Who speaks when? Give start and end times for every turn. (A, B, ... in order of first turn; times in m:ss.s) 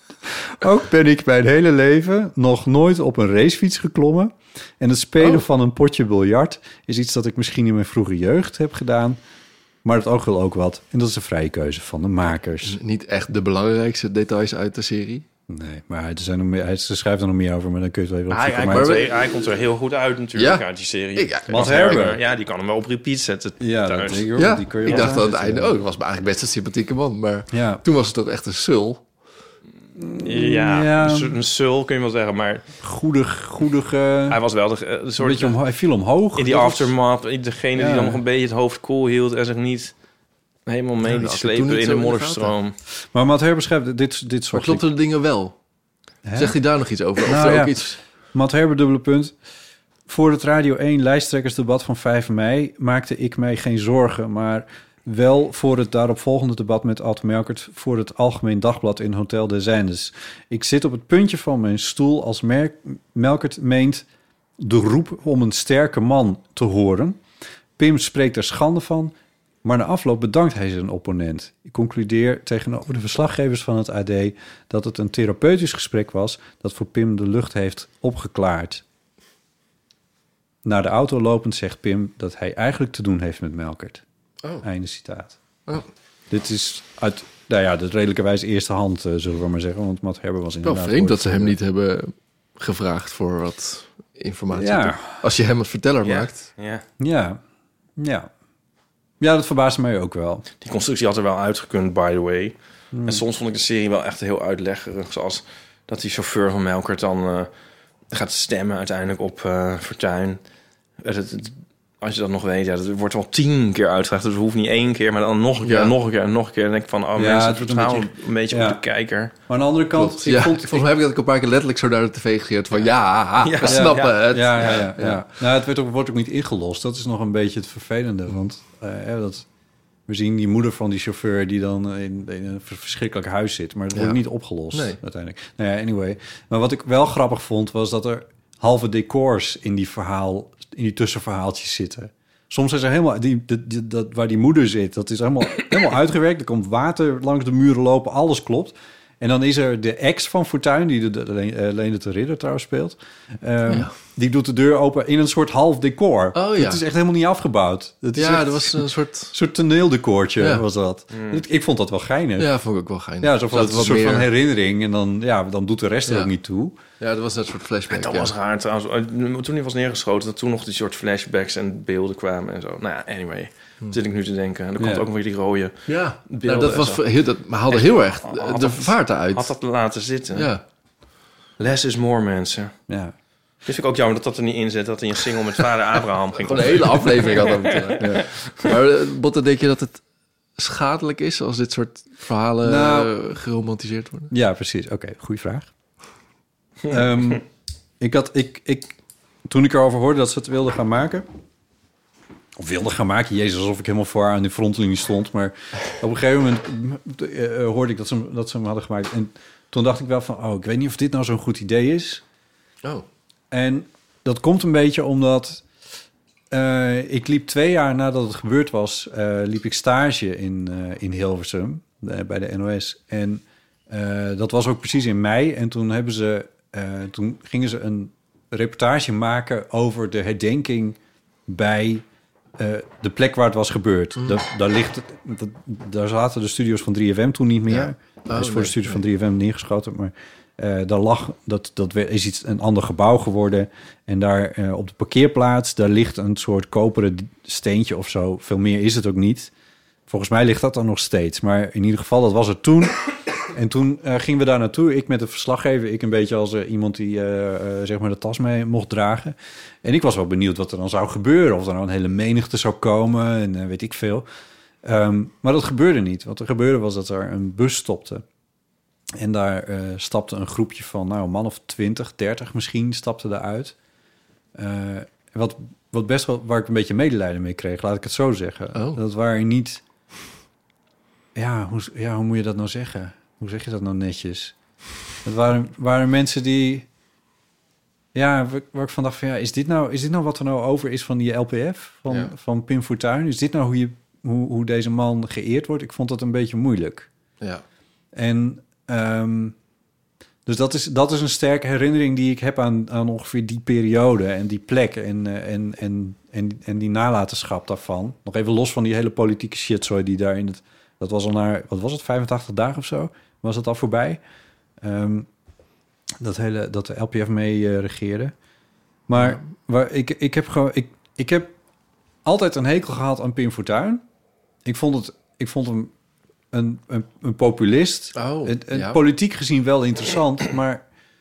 0:00.3-0:09.2 A
0:09.8-0:12.8 A
0:12.6-0:15.2 B
0:15.5-0:18.9 A
0:18.3-0:24.3 C
0:18.7-0:19.5 B
0:20.3-0:22.2 B
0:21.5-0:22.2 A
0:23.6-0:25.7 A
0:24.3-0:29.0 B
0:24.8-0:25.1 C
0:27.5-0:27.8 A
0:30.0-0:31.4 A
0:30.2-0:32.6 C
0:32.8-0:34.4 A
0:34.3-0:35.6 C
0:35.2-0:36.9 A
0:36.4-0:39.9 C
0:37.8-0:38.2 A
0:40.6-0:42.7 C
0:41.0-0:42.5 B
0:43.1-0:44.8 A
0:44.5-0:45.6 B
0:46.2-0:46.6 A
0:46.3-0:48.0 B
0:47.2-0:47.8 A
0:48.3-0:49.3 A
0:50.1-1:04.0 A
1:04.6-1:07.2 A
1:07.8-1:18.8 A
1:20.6-1:24.0 A
1:24.6-1:25.4 A
1:26.3-1:31.6 A
1:30.6-1:36.4 B
1:34.5-1:35.2 A
1:36.0-1:36.8 C
1:37.0-1:37.4 A
1:38.0-1:38.3 A
1:39.2-1:40.4 A
1:40.6-1:47.5 C
1:42.9-1:43.2 A
1:48.1-1:50.4 C
1:51.0-1:59.3 C
1:55.6-1:55.9 B
1:57.2-1:58.8 A
1:59.5-2:00.8 A
1:59.9-2:05.2 B
2:03.4-2:04.8 C
2:03.7-2:09.4 A
2:10.1-2:42.5 A
2:13.9-2:14.2 B
2:14.7-2:15.0 B
2:36.3-2:36.8 B
2:38.2-2:39.3 B
2:40.4-2:40.6 B
2:41.1-2:41.4 C
2:42.4-2:44.3 B
2:43.2-2:46.8 A
2:46.0-2:46.3 B
2:47.0-2:48.3 B
2:47.9-2:57.0 C
2:54.8-2:55.0 A
2:55.9-2:59.5 B
2:57.7-3:00.5 C
3:00.3-3:00.6 B
3:01.6-3:02.7 C
3:02.9-3:03.1 A
3:03.6-3:08.7 C
3:06.4-3:10.0 B
3:10.6-3:14.3 B
3:12.6-3:13.1 A
3:14.3-3:15.7 A
3:16.9-3:17.4 A
3:18.0-3:18.9 A
3:19.5-3:21.2 A
3:22.6-3:32.2 A
3:33.5-3:35.6 A
3:36.5-3:52.0 A
3:52.6-4:09.5 A
3:54.2-3:54.4 B
3:57.7-3:59.0 B
4:10.1-4:13.0 A
4:13.5-4:24.2 A
4:24.8-4:28.2 A
4:29.2-4:33.7 A
4:34.5-4:39.8 A
4:38.7-4:39.0 B
4:41.3-4:44.5 A
4:45.2-4:46.9 A
4:48.1-4:57.1 A
4:52.1-4:52.3 B
4:58.1-4:59.5 A
5:00.4-5:14.2 A
5:14.8-5:15.3 A
5:16.2-5:18.3 A
5:19.1-5:21.5 A
5:19.1-5:19.5 B
5:22.2-5:24.0 A
5:24.6-5:25.9 A
5:26.5-5:30.8 A
5:28.1-5:29.0 B